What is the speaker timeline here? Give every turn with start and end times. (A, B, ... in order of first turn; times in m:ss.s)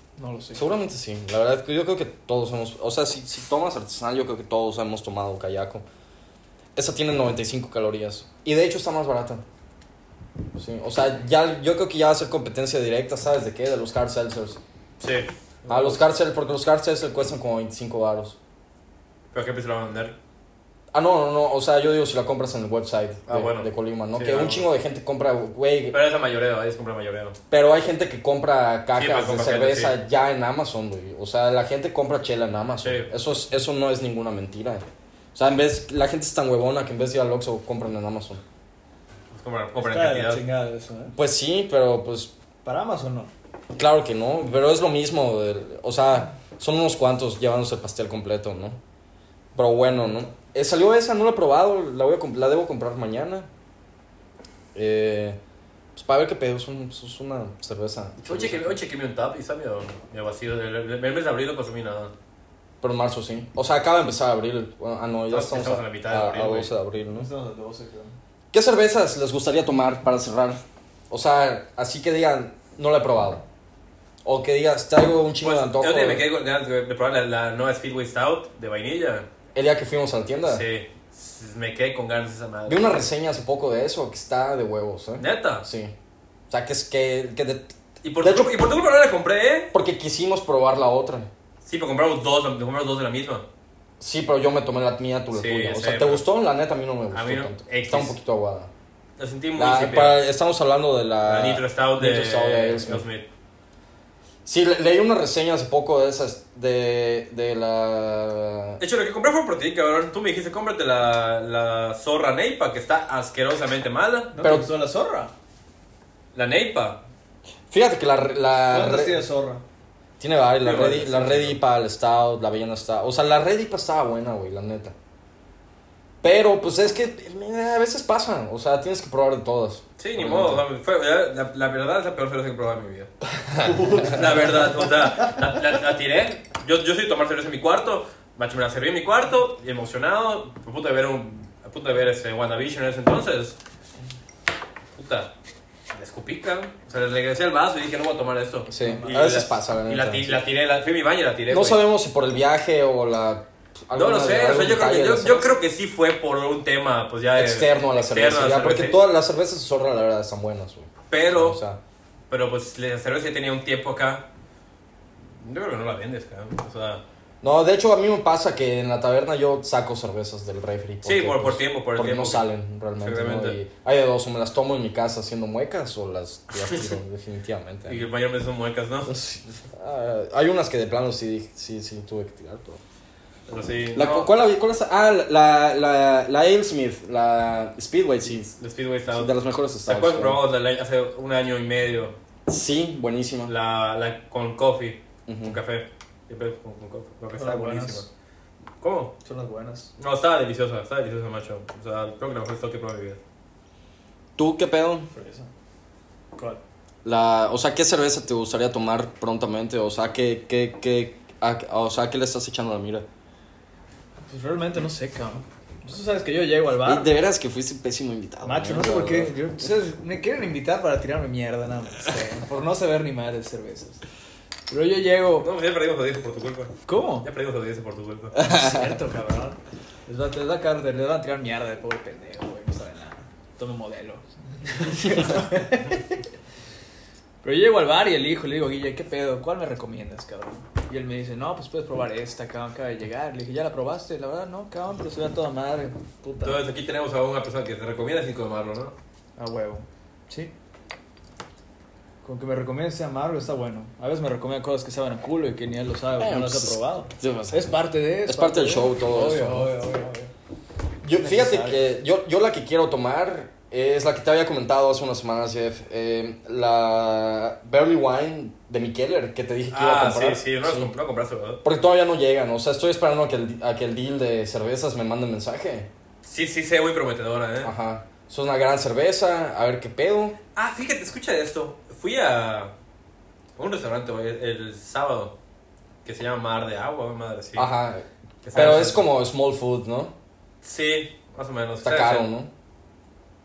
0:00.2-0:00.7 A
0:00.5-0:05.8 B
0:06.7-0:09.4 B
0:10.5-0:14.6 B
0:15.0-0:15.3 C
0:15.6-0:15.9 A
0:15.7-0:18.4 B
0:19.3-0:20.2 C
0:20.9-0:26.0 B
0:23.3-0:24.6 C
0:25.9-0:27.4 C
0:27.5-0:38.4 B
0:29.0-0:30.0 C
0:32.8-0:33.1 C
0:39.3-0:40.4 C
0:39.8-0:41.2 A
0:41.1-0:42.3 B
0:42.6-0:43.3 A
0:43.7-0:48.8 B
0:49.5-0:53.5 B
0:49.9-0:50.3 A
0:54.7-0:55.4 B
0:55.9-0:58.8 B
0:58.2-1:02.1 C
1:02.8-1:07.3 B
1:05.3-1:06.7 C
1:07.1-1:08.2 A
1:08.5-1:13.4 B
1:14.2-1:16.2 B
1:15.4-1:19.3 C
1:19.5-1:20.6 B
1:20.4-1:23.0 C
1:22.7-1:25.9 B
1:25.2-1:25.6 C
1:26.5-1:28.6 B
1:28.0-1:29.7 C
1:29.7-1:31.3 B
1:31.6-1:33.4 C
1:34.0-1:38.7 B
1:35.3-1:36.2 C
1:37.1-1:38.1 C
1:39.2-1:40.2 C
1:39.6-1:43.0 B
1:41.2-1:43.2 C
1:44.4-1:48.8 B
1:48.8-1:54.4 C
1:54.3-1:55.3 A
1:54.4-1:54.7 B
1:56.3-1:57.0 C
1:57.7-1:59.2 B
1:58.7-1:59.6 A
2:00.2-2:04.9 B
2:00.6-2:01.6 C
2:06.2-2:10.6 B
2:10.0-2:13.1 C
2:13.5-2:13.8 B
2:13.6-2:14.4 A
2:13.9-2:23.6 C
2:24.9-2:25.3 C
2:25.9-2:31.8 C
2:28.7-2:30.4 B
2:28.8-2:29.2 A
2:31.5-2:35.6 B
2:33.9-2:39.0 C
2:37.4-2:41.8 B
2:41.1-2:41.6 C
2:42.3-2:44.3 C
2:45.4-2:47.0 C
2:47.4-2:58.0 B
2:51.0-2:52.5 C
2:53.0-2:53.6 C
2:56.6-2:56.9 C
2:57.9-2:59.2 C
2:59.1-3:02.8 B
3:03.5-3:04.3 C
3:03.9-3:08.6 B
3:08.6-3:12.2 C
3:09.1-3:10.4 B
3:12.5-3:13.5 B
3:13.5-3:18.1 C
3:15.3-3:15.6 B
3:17.3-3:18.0 A
3:18.8-3:19.1 C
3:19.2-3:19.9 A
3:20.0-3:23.2 C
3:24.4-3:25.1 B
3:25.1-3:25.5 A
3:26.3-3:26.6 A
3:27.0-3:33.0 B
3:34.3-3:37.1 A
3:36.8-3:39.4 B
3:38.4-3:44.0 A
3:44.7-3:45.5 A
3:45.4-3:48.4 C
3:46.9-3:47.3 A
3:48.4-3:49.0 B
3:48.4-3:56.2 A
3:57.4-4:06.6 A
4:06.4-4:08.9 C
4:09.4-4:10.5 A
4:12.2-4:20.3 A
4:16.2-4:17.7 B
4:18.2-4:19.7 B
4:21.0-4:30.9 B
4:21.2-4:21.8 A
4:29.7-4:31.6 C
4:31.6-4:35.9 B
4:36.2-4:37.7 C
4:37.6-4:40.4 B
4:40.5-4:42.7 C
4:43.6-4:45.4 C
4:46.0-4:47.7 C
4:47.6-4:50.1 B
4:48.4-4:49.0 C
4:50.6-4:52.3 C
4:51.8-4:52.5 B